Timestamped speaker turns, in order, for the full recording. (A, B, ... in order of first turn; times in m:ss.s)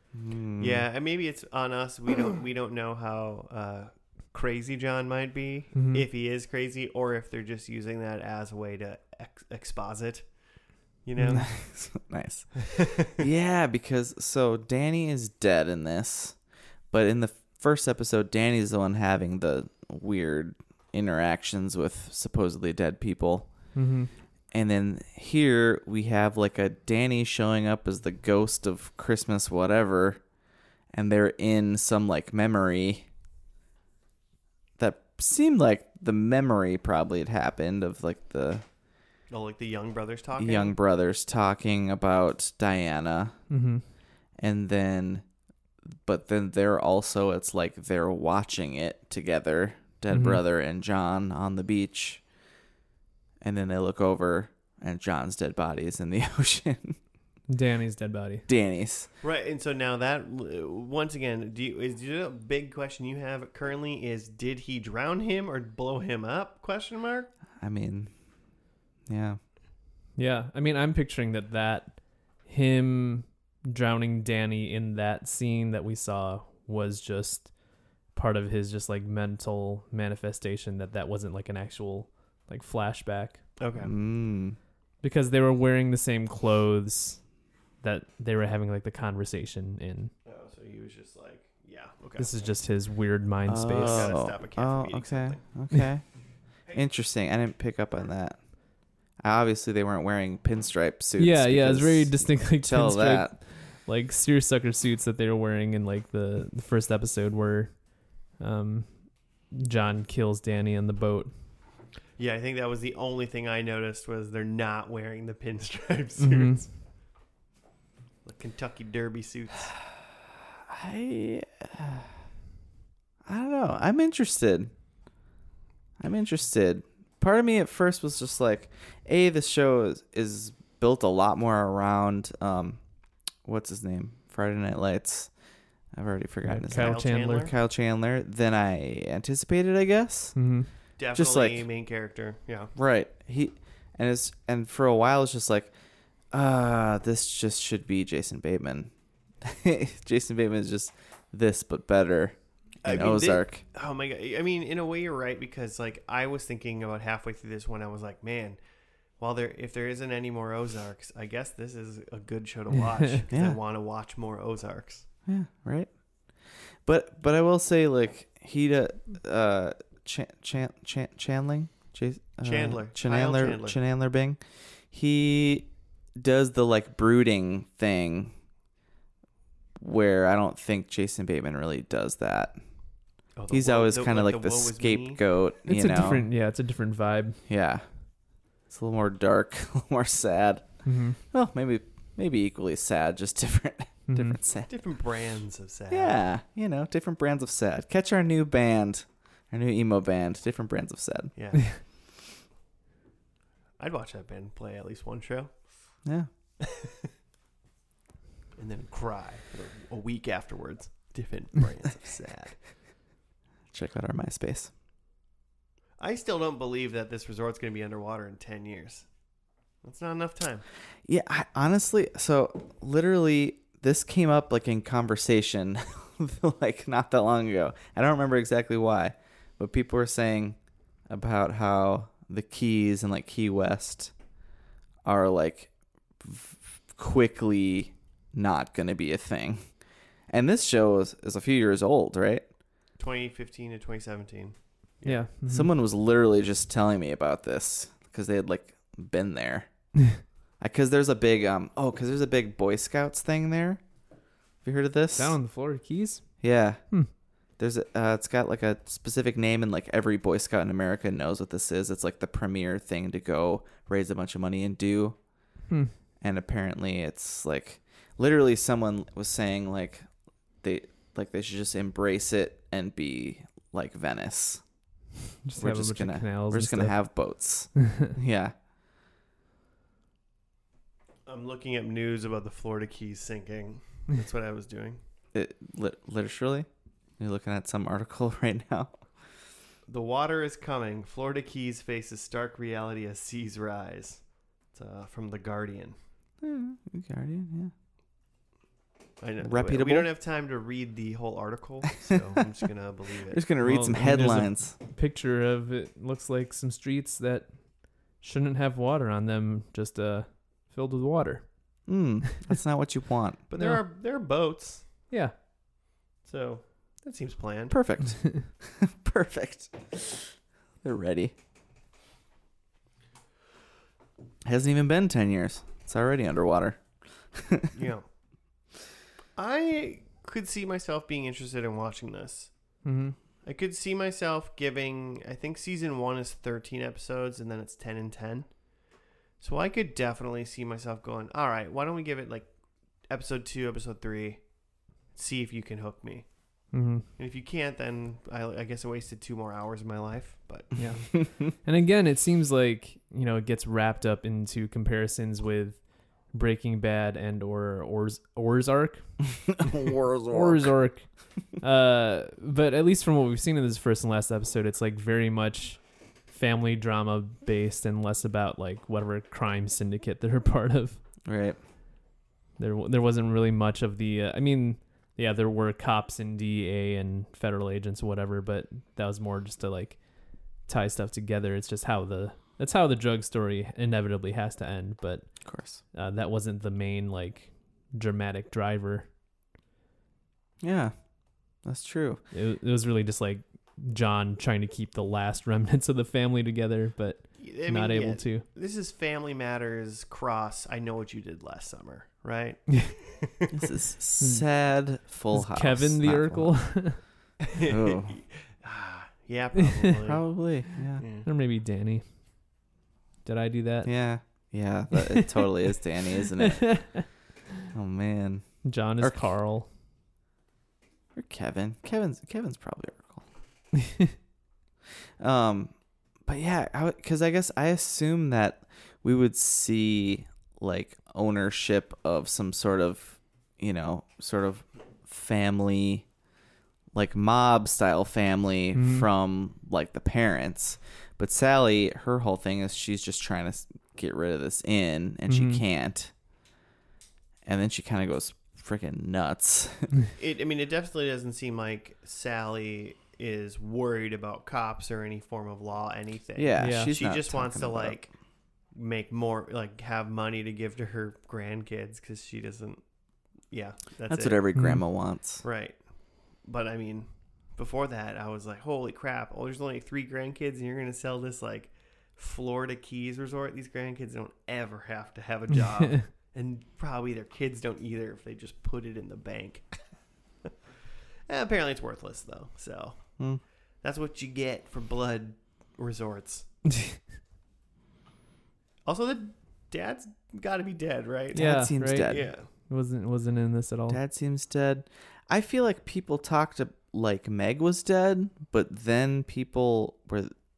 0:00.1-0:00.9 A
0:00.6-0:10.3 B
0:05.8-0:06.0 C
0:11.0-0:11.5 B
0:11.2-0:11.4 C
0:11.4-0:16.4 A
0:12.7-0:13.1 B
0:16.9-0:23.5 A
0:23.8-0:24.1 C
0:24.5-0:30.2 A
0:30.9-0:33.1 A
0:34.8-0:38.6 A
0:39.3-0:40.8 B
0:40.4-0:43.4 A
0:43.5-0:43.8 C
0:44.4-0:45.2 A
0:46.0-0:52.2 A
0:50.1-0:50.4 C
0:53.4-0:57.0 A
0:57.5-0:58.5 C
0:58.5-0:59.1 A
0:59.2-1:07.3 B
1:07.6-1:08.1 A
1:09.1-1:09.4 A
1:10.2-1:17.5 C
1:18.1-1:23.4 C
1:23.6-1:23.9 B
1:23.8-1:24.6 A
1:25.0-1:27.3 C
1:27.8-1:30.1 C
1:30.3-1:32.4 B
1:32.2-1:34.1 C
1:33.5-1:36.0 A
1:33.7-1:35.4 B
1:36.7-1:38.4 A
1:39.2-1:43.4 A
1:41.2-1:51.3 C
1:52.2-1:56.7 B
1:56.2-1:56.6 C
1:58.2-1:59.8 B
2:00.7-2:02.1 A
2:03.2-2:04.7 A
2:06.0-2:12.8 A
2:13.4-2:15.3 A
2:15.9-2:20.4 A
2:16.5-2:17.5 C
2:16.7-2:17.5 B
2:20.4-2:20.7 C
2:21.0-2:22.7 B
2:21.1-2:21.6 A
2:22.8-2:25.7 A
2:26.3-2:33.6 A
2:32.8-2:38.6 B
2:39.2-2:45.1 B
2:43.3-2:43.6 A
2:45.3-2:45.9 A
2:46.5-2:54.4 A
2:52.4-2:53.8 B
2:54.9-2:58.4 A
2:59.8-3:02.6 A
3:03.4-3:05.2 B
3:03.5-3:06.3 A
3:05.7-3:07.4 C
3:07.5-3:07.8 A
3:08.7-3:10.7 A
3:10.8-3:11.2 C
3:11.2-3:14.7 A
3:14.1-3:14.4 C
3:14.7-3:16.2 B
3:15.9-3:21.3 A
3:21.4-3:21.8 B
3:23.8-3:25.5 B
3:26.6-3:27.1 B
3:28.6-3:32.6 B
3:33.7-3:34.7 A
3:36.0-3:39.1 B
3:39.8-3:40.6 B
3:41.0-3:50.6 A
3:51.1-3:54.1 A
3:55.0-3:59.6 A
4:00.3-4:02.5 A
4:03.0-4:05.2 B
4:05.0-4:05.7 C
4:05.5-4:09.7 A
4:10.6-4:13.8 A
4:14.6-4:15.4 A
4:15.2-4:16.3 C
4:16.4-4:16.8 A
4:17.6-4:25.2 A
4:26.2-4:30.1 A
4:30.6-4:34.6 A
4:35.4-4:37.0 C
4:35.6-4:38.5 A
4:41.3-4:45.0 B
4:45.3-4:46.7 A
4:47.2-4:49.0 A
4:49.9-4:56.0 B
4:56.4-4:57.7 A
4:59.2-5:03.5 B
4:59.4-5:00.1 A
5:03.3-5:04.8 A
5:03.6-5:11.7 C
5:11.9-5:13.4 A
5:13.5-5:14.9 B
5:16.2-5:17.8 B
5:17.7-5:21.3 A
5:24.4-5:26.8 A
5:27.3-5:27.7 A
5:27.7-5:28.1 B
5:29.4-5:32.5 B
5:32.8-5:33.2 C
5:33.4-5:38.5 B
5:39.4-5:42.5 B
5:43.1-5:44.4 B
5:45.1-5:46.3 B
5:46.7-5:47.1 C
5:47.2-5:51.1 B
5:50.8-5:59.2 C
5:59.5-6:00.7 A
6:00.3-6:11.0 C
6:11.3-6:11.6 A
6:12.6-6:25.3 C
6:25.4-6:25.8 A
6:25.9-6:29.1 C
6:30.6-6:30.9 A
6:31.6-6:32.2 A
6:32.3-6:38.4 C
6:37.4-6:43.6 B
6:43.5-6:46.9 A
6:44.2-6:44.5 C
6:45.3-6:47.0 C
6:47.5-6:50.3 B
6:47.6-6:48.2 A
6:50.0-6:51.0 A
6:51.0-6:51.3 B
6:51.2-6:52.0 C
6:53.2-6:53.9 C
6:53.8-6:57.0 A
6:55.0-6:55.3 C
6:56.4-6:57.0 C
6:57.7-6:59.2 A
6:58.6-6:59.7 C
7:01.2-7:03.3 A
7:05.2-7:05.7 A
7:06.2-7:16.1 A
7:16.9-7:26.1 A
7:18.8-7:19.1 C
7:25.3-7:25.6 C
7:27.4-7:29.9 A
7:30.2-7:38.1 B
7:36.4-7:38.0 A
7:36.6-7:37.0 C
7:38.7-7:42.8 B
7:43.5-7:44.4 B
7:44.1-7:45.4 A
7:44.6-7:44.8 C
7:45.4-7:45.8 B
7:46.4-7:59.7 B
8:01.3-8:03.1 B
8:03.8-8:06.5 B
8:08.8-8:12.5 B
8:11.3-8:12.3 A
8:11.3-8:14.0 C
8:13.9-8:20.3 A